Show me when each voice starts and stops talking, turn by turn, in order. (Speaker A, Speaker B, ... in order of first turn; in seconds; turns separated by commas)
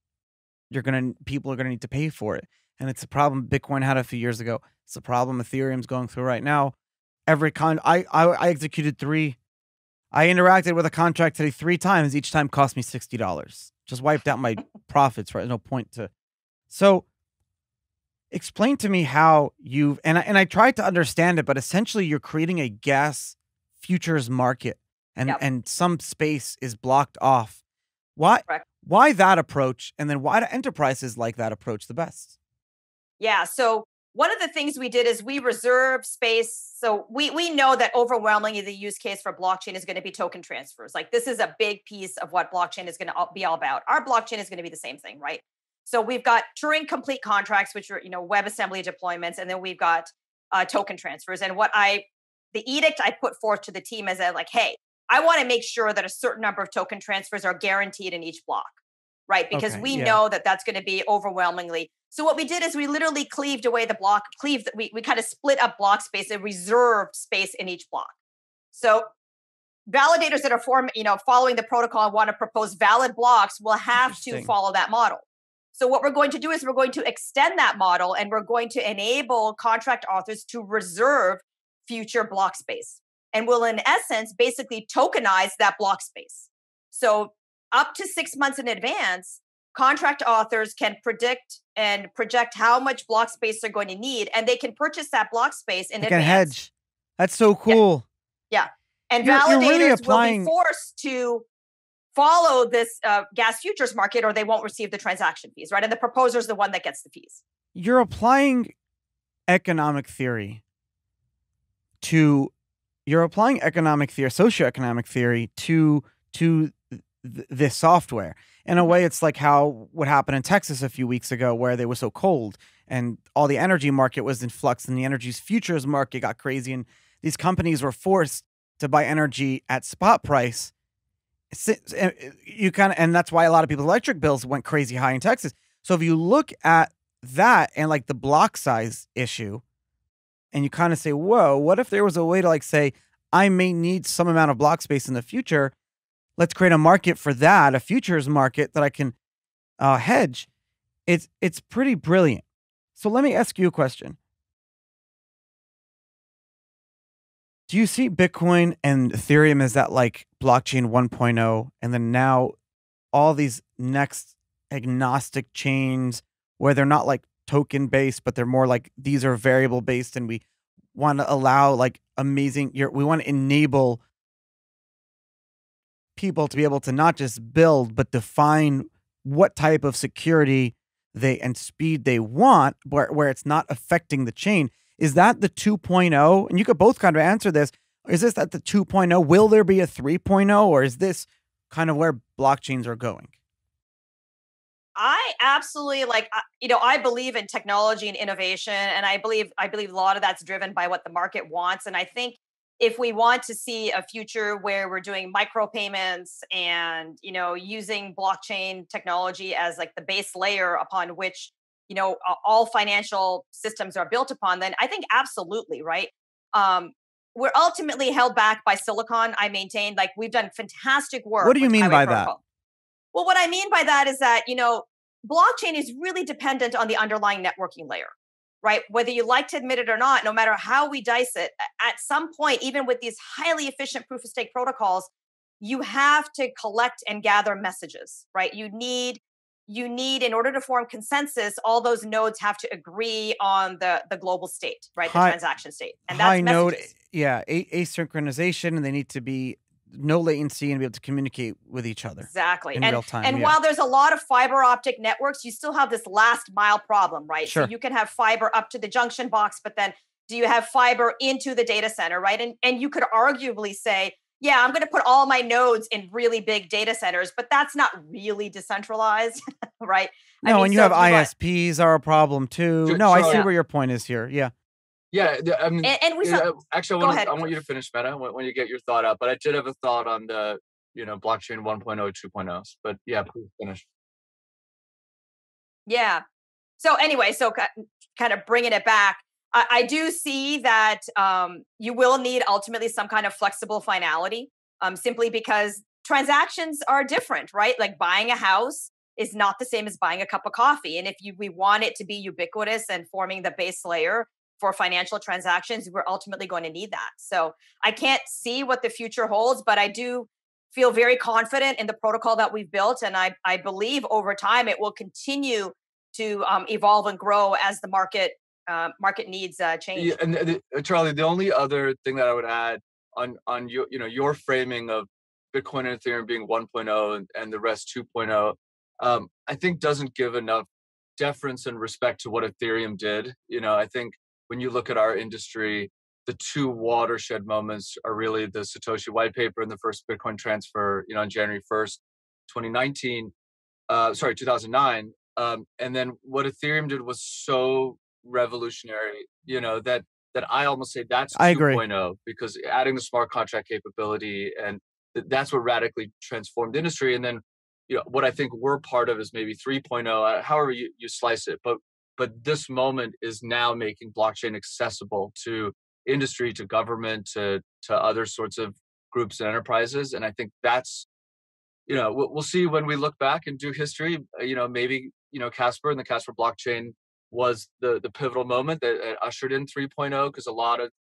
Speaker A: 0.7-6.7, Speaker A: 7.3-9.4, Speaker A: 10.1-16.1, Speaker A: 16.7-17.1, Speaker A: 18.3-27.6, Speaker A: 28.2-32.3, Speaker B: 33.2-68.2, Speaker A: 59.5-60.2, Speaker B: 68.7-69.1, Speaker B: 69.9-96.5, Speaker A: 74.0-74.5, Speaker A: 96.0-98.1, Speaker B: 98.5-101.5, Speaker A: 99.2-100.5, Speaker B: 102.1-107.4, Speaker A: 107.8-108.7, Speaker A: 109.5-110.6, Speaker A: 112.0-112.5, Speaker A: 113.1-130.7, Speaker A: 131.5-139.6, Speaker A: 140.5-145.7, Speaker A: 146.4-149.2, Speaker A: 149.8-150.5, Speaker A: 151.1-152.4, Speaker A: 153.0-154.2, Speaker A: 157.7-162.6, Speaker A: 163.1-170.4, Speaker A: 170.9-174.0, Speaker A: 176.2-193.3, Speaker B: 195.0-222.4, Speaker A: 221.4-222.3, Speaker B: 223.1-228.1, Speaker B: 228.6-246.9, Speaker A: 245.0-245.4, Speaker A: 246.1-253.6, Speaker B: 252.3-271.3, Speaker A: 270.4-274.5, Speaker C: 272.9-273.4, Speaker B: 273.2-273.5, Speaker C: 275.1-283.8, Speaker B: 275.8-277.5, Speaker B: 285.9-286.2, Speaker B: 286.8-320.1, Speaker C: 319.9-343.3, Speaker C: 343.9-371.1, Speaker A: 351.4-351.8, Speaker C: 371.9-380.9